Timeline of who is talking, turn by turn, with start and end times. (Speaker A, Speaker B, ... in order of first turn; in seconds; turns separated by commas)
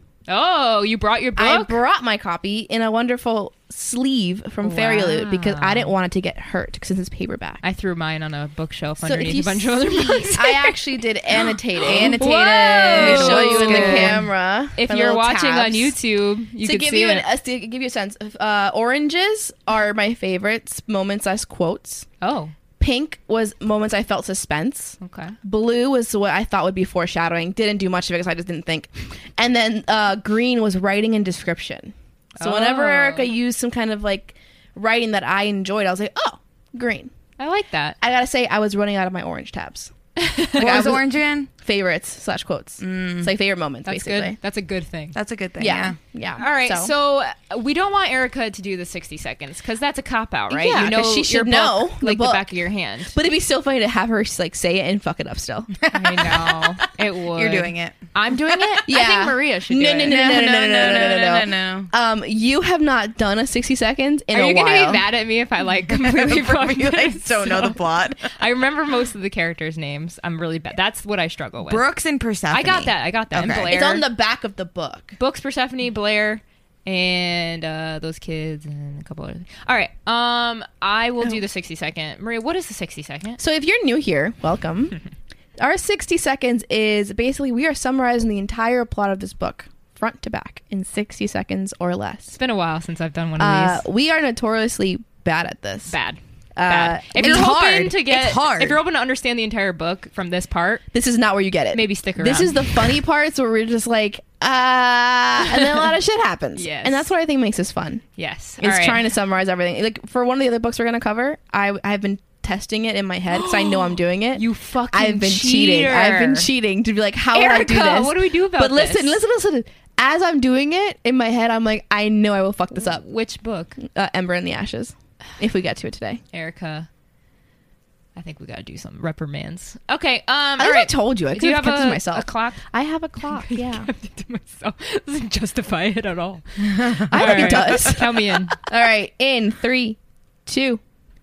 Speaker A: 0.3-1.8, Speaker B: 1.4-7.6, Speaker A: 4.6-5.9, Speaker A: 7.6-10.8, Speaker B: 9.0-15.9, Speaker A: 11.8-17.3, Speaker C: 11.8-14.3, Speaker B: 16.6-22.1, Speaker A: 22.2-22.5, Speaker B: 22.8-37.1, Speaker A: 25.0-25.3, Speaker A: 32.4-33.3, Speaker A: 37.4-38.0, Speaker B: 38.0-39.9, Speaker A: 40.2-40.9, Speaker B: 40.4-44.4, Speaker C: 40.5-41.5, Speaker C: 42.8-43.3, Speaker A: 43.9-45.1, Speaker C: 45.1-46.0, Speaker B: 45.6-46.9, Speaker A: 46.4-53.1, Speaker B: 50.5-52.5, Speaker B: 53.1-55.8, Speaker C: 55.8-58.0, Speaker A: 55.9-60.4, Speaker B: 58.9-65.0, Speaker C: 60.1-61.9, Speaker A: 64.3-71.8, Speaker C: 65.9-68.3, Speaker C: 71.7-73.8, Speaker A: 72.5-74.0, Speaker B: 73.6-75.2, Speaker A: 75.2-83.4, Speaker B: 83.4-85.0, Speaker B: 85.6-92.4, Speaker A: 92.3-93.8, Speaker B: 93.4-96.0, Speaker A: 95.9-100.8, Speaker B: 96.5-97.6, Speaker C: 97.2-98.8, Speaker B: 100.9-108.0, Speaker A: 101.7-102.8, Speaker A: 105.5-105.8, Speaker A: 106.5-107.1, Speaker A: 108.2-109.0, Speaker B: 108.6-123.0, Speaker A: 113.3-116.5, Speaker A: 117.3-119.2, Speaker A: 122.7-123.8, Speaker B: 123.8-126.2, Speaker A: 126.3-126.9, Speaker A: 128.2-132.6, Speaker B: 130.6-133.9, Speaker A: 133.2-138.6, Speaker C: 136.6-138.0, Speaker B: 137.1-140.8